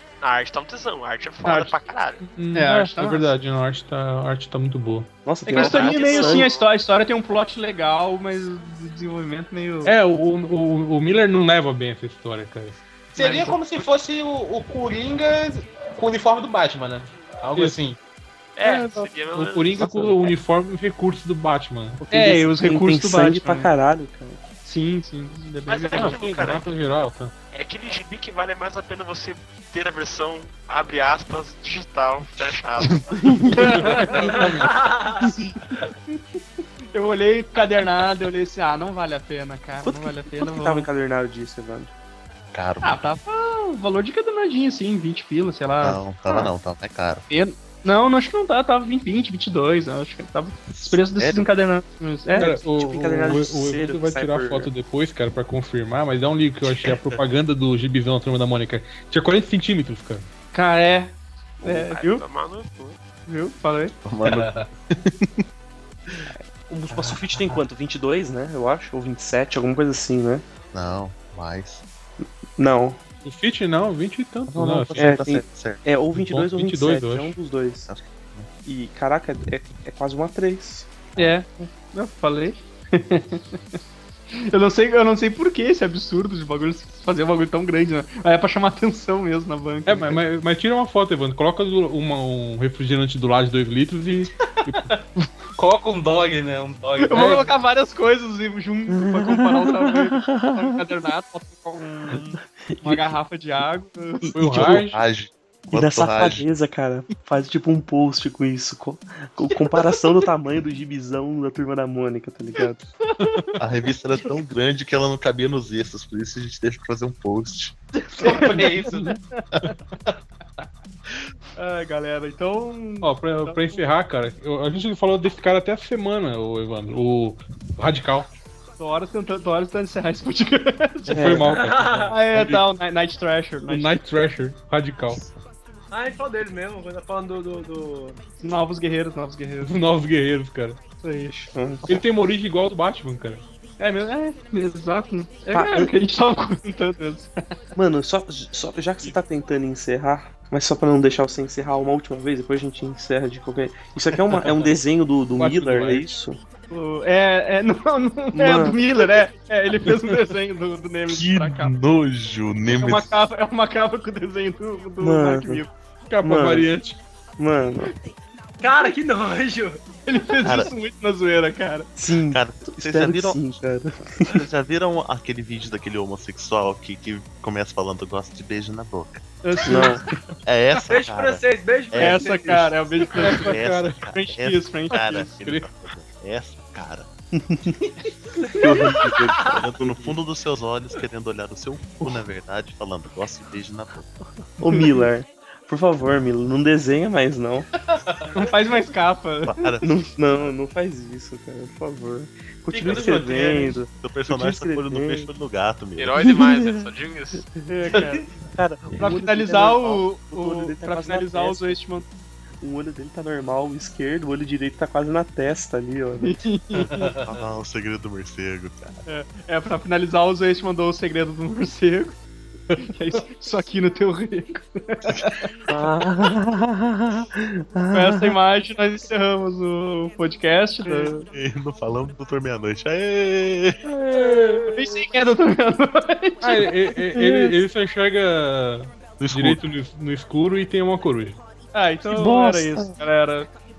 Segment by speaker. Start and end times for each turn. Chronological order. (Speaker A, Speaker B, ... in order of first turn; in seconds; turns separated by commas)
Speaker A: 0.2-2.2, Speaker B: 2.2-5.1, Speaker C: 2.5-3.0, Speaker D: 2.6-3.3, Speaker E: 5.2-6.5, Speaker D: 5.5-9.9, Speaker A: 5.5-6.7, Speaker B: 9.8-12.8, Speaker C: 13.1-18.0, Speaker A: 18.6-19.9, Speaker B: 18.6-22.5, Speaker E: 19.8-20.1, Speaker E: 22.1-24.4, Speaker D: 22.1-23.7, Speaker D: 24.6-26.2, Speaker A: 25.7-26.6, Speaker B: 25.9-27.3, Speaker A: 27.5-33.2, Speaker E: 33.2-33.7, Speaker D: 33.5-34.3, Speaker B: 33.5-34.8, Speaker F: 34.6-35.3, Speaker D: 36.9-40.9, Speaker E: 39.8-41.9, Speaker G: 42.5-43.0, Speaker D: 42.8-46.4, Speaker G: 45.8-47.2, Speaker D: 47.3-52.5, Speaker G: 50.7-51.5, Speaker E: 52.4-54.7, Speaker B: 52.4-60.3, Speaker D: 60.5-62.2, Speaker A: 61.6-63.0, Speaker D: 63.3-63.9, Speaker G: 64.0-65.3, Speaker C: 64.2-64.7, Speaker E: 66.3-70.4, Speaker C: 66.9-67.5, Speaker G: 70.7-71.8, Speaker E: 72.5-73.0, Speaker B: 73.2-75.2, Speaker G: 74.5-76.0, Speaker E: 75.0-77.9, Speaker B: 76.2-77.3, Speaker G: 77.9-78.5, Speaker E: 78.6-81.2, Speaker D: 81.2-83.8, Speaker D: 84.3-90.2, Speaker B: 89.8-94.9, Speaker C: 95.5-97.4, Speaker D: 97.0-104.2, Speaker B: 97.1-97.4, Speaker E: 98.9-100.8, Speaker E: 104.2-104.8, Speaker B: 104.3-105.0, Speaker G: 104.5-106.5, Speaker E: 105.7-112.8, Speaker D: 113.0-113.5, Speaker B: 113.2-113.5, Speaker G: 113.6-117.8, Speaker C: 118.1-119.2, Speaker D: 118.2-119.7, Speaker D: 121.6-123.8, Speaker B: 123.0-128.3, Speaker D: 128.8-131.4, Speaker E: 131.1-131.6, Speaker B: 131.1-132.6, Speaker F: 131.4-132.2, Speaker D: 132.1-134.0, Speaker B: 133.7-135.2, Speaker F: 135.9-138.2, Speaker D: 138.4-139.7, Speaker B: 139.6-140.8, Speaker D: 141.0-141.3, Speaker E: 141.3-142.0, Speaker B: 141.9-143.4, Speaker D: 143.8-147.3, Speaker E: 145.5-145.9, Speaker E: 147.8-156.4, Speaker B: 155.3-156.1, Speaker D: 156.7-161.7, Speaker E: 158.3-158.8, Speaker G: 161.1-163.1, Speaker D: 162.7-165.7, Speaker E: 165.0-165.6, Speaker B: 166.1-167.0, Speaker E: 166.2-166.7, Speaker E: 167.4-167.9, Speaker F: 168.6-169.8, Speaker D: 170.1-171.9, Speaker G: 170.4-170.7, Speaker E: 171.9-174.4, Speaker G: 172.3-173.5, Speaker G: 174.3-179.2, Speaker D: 179.4-180.0, Speaker E: 179.7-180.0, Speaker G: 180.4-187.1, Speaker F: 180.9-182.7, Speaker D: 182.0-185.3, Speaker B: 183.2-184.0, Speaker B: 185.4-185.7, Speaker E: 187.3-187.8, Speaker G: 188.6-194.1, Speaker E: 188.6-190.2, Speaker F: 189.3-189.5, Speaker E: 194.6-197.7, Speaker D: 194.6-195.1, Speaker D: 198.3-199.7, Speaker G: 199.4-199.9, Speaker E: 199.8-205.3, Speaker C: 202.7-203.8, Speaker G: 202.8-203.2, Speaker G: 203.9-206.2, Speaker A: 206.0-207.4, Speaker E: 206.2-206.9, Speaker D: 207.7-208.3, Speaker E: 208.4-211.8, Speaker D: 209.0-212.1, Speaker E: 212.6-216.4, Speaker D: 216.2-217.1, Speaker C: 216.7-217.1, Speaker G: 217.2-219.0, Speaker D: 219.1-222.2, Speaker D: 222.8-225.4, Speaker E: 225.7-228.3, Speaker D: 227.9-231.1, Speaker E: 230.8-231.3, Speaker G: 231.3-233.8, Speaker E: 233.8-234.9, Speaker D: 234.7-236.7, Speaker B: 236.4-241.4, Speaker E: 237.1-237.5, Speaker G: 239.2-239.6, Speaker D: 241.7-243.5, Speaker E: 242.1-243.0